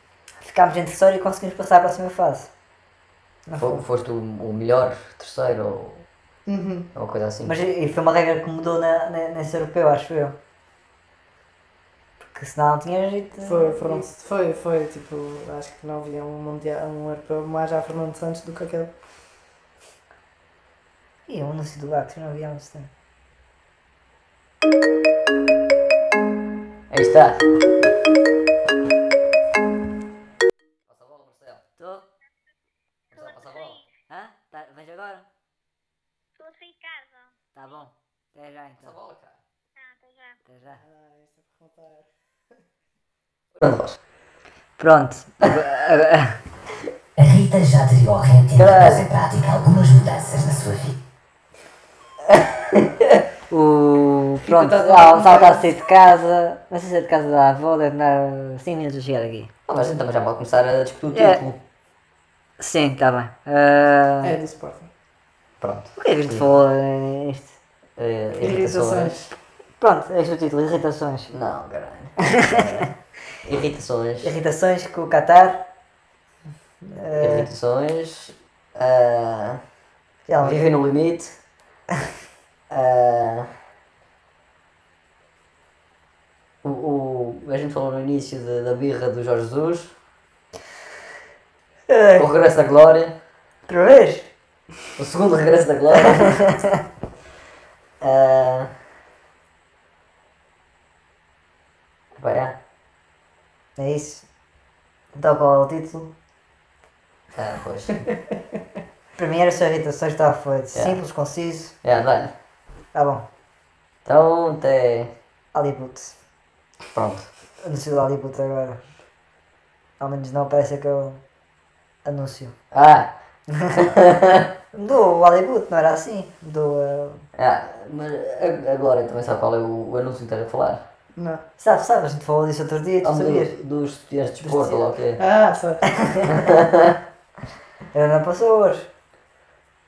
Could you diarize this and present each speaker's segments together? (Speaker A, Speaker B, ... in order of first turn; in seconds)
Speaker A: 0.4-2.5, 3.5-3.8, 7.5-10.3, 12.2-14.1, 21.2-22.9, 31.8-32.0, 34.1-35.2, 37.5-38.9, 40.5-40.8, 44.8-46.4, 53.5-59.5, 61.1-61.4, 62.6-64.4, 66.0-67.6, 69.8-71.3, 72.3-72.9, 74.2-75.6, 76.8-77.5, 80.3-80.7, 91.9-92.3, 93.7-94.3, 96.1-96.8, 103.8-104.2, 105.1-106.1, 109.2-111.8, 112.9-113.2, 115.5-116.2, 117.6-118.8, 120.0-121.2, 122.0-122.6, 123.5-123.8, 124.7-127.2, 131.6-133.5, 134.4-134.8, 135.9-136.4, 137.9-138.9
Speaker B: 3.6-6.0, 6.9-7.5, 26.9-27.4, 30.9-31.7, 33.1-33.8, 38.8-39.4, 43.6-44.0, 48.5-49.0, 52.3-53.2, 59.7-61.6, 65.6-66.5, 68.0-69.3, 71.3-72.9, 73.4-74.3, 77.1-79.6, 80.4-81.4, 82.7-83.5, 86.6-89.9, 92.2-93.1, 95.0-96.4, 98.0-98.7, 102.2-102.6, 107.3-108.0, 111.8-112.3, 114.0-115.1, 116.9-117.3, 122.7-123.1, 123.7-124.5, 127.3-130.9, 133.0-135.2, 136.2-136.9
Speaker C: 6.5-6.9, 13.4-18.9, 40.8-42.1, 54.4-55.7, 64.2-64.9, 68.4-69.3, 131.2-131.4, 135.2-136.0
Speaker D: 33.1-33.9, 36.4-37.3, 39.8-40.4
Speaker E: 47.2-51.0